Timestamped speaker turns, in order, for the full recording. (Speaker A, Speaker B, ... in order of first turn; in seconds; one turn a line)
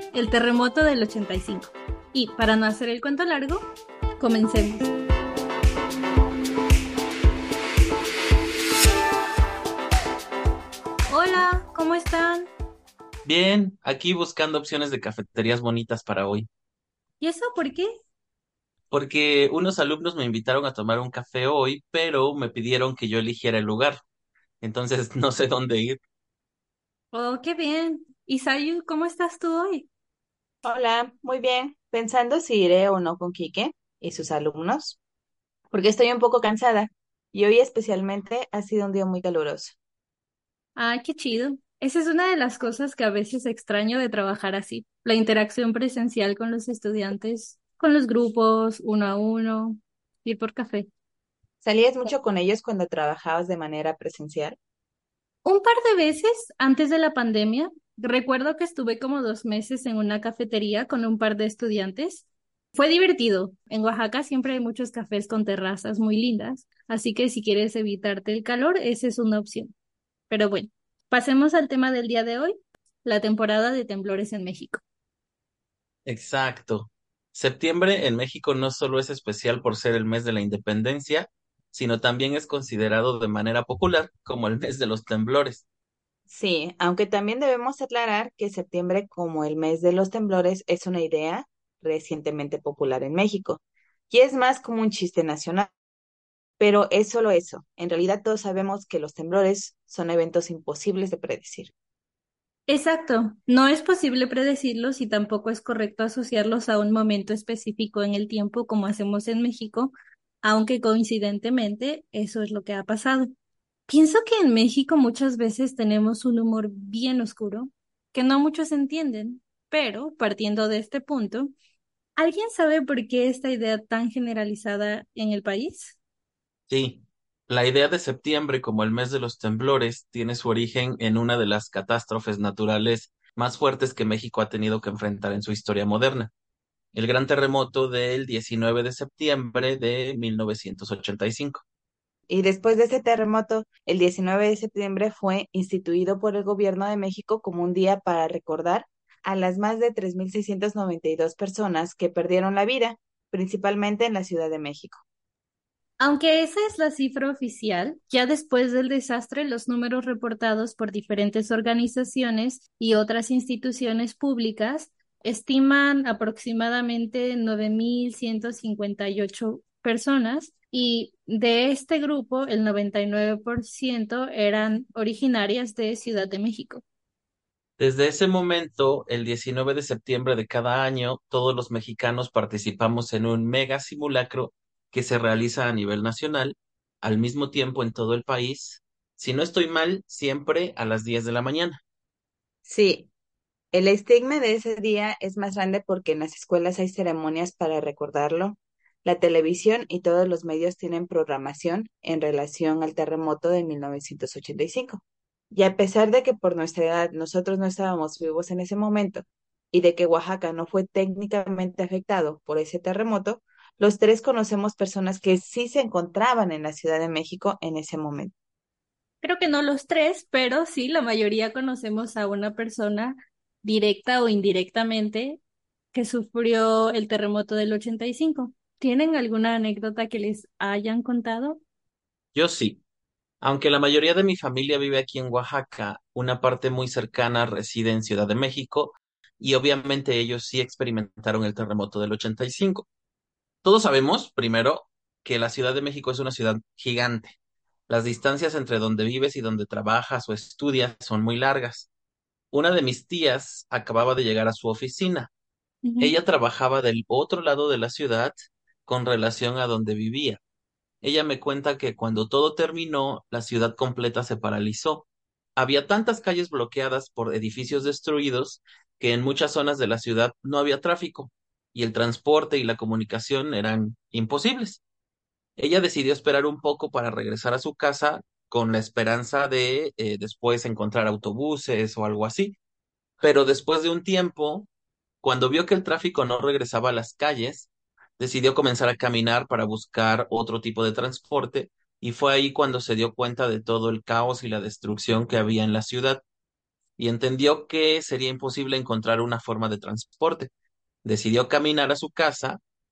Speaker A: 0.1-3.7
Speaker A: 4.2-4.9
Speaker A: 11.1-12.5
Speaker B: 13.2-16.5
Speaker A: 17.2-17.9
Speaker B: 18.9-24.0
Speaker B: 24.6-26.0
Speaker A: 27.1-29.9
Speaker C: 30.6-35.0
Speaker C: 35.7-39.8
Speaker A: 40.8-50.9
Speaker C: 51.6-54.6
Speaker A: 55.4-69.7
Speaker A: 70.3-74.8
Speaker B: 76.1-85.7
Speaker C: 86.3-95.7
Speaker C: 96.6-101.7
Speaker A: 102.7-113.3
Speaker A: 113.9-121.5
Speaker A: 122.2-126.0
Speaker B: 126.7-136.3
Speaker B: 136.9-141.6
Speaker C: 142.3-155.0
Speaker A: 156.0-176.8
Speaker B: 177.8-191.8
Speaker C: 192.7-193.1
Speaker C: 193.7-218.3
Speaker A: 219.2-225.4
Speaker A: 225.9-231.6
Speaker B: 232.3-232.8
Speaker B: 233.4-242.9
Speaker B: 243.6-247.4
Speaker B: 247.9-251.9
Speaker B: 252.5-255.3
Speaker A: 255.8-256.2
Speaker B: 256.0-258.3
Speaker B: 258.9-260.4
Speaker B: 261.0-274.8
Speaker B: 275.6-282.6
Speaker B: 283.2-284.7
Speaker B: 285.2-296.2
Speaker B: 297.0-300.5
Speaker B: 301.0-302.6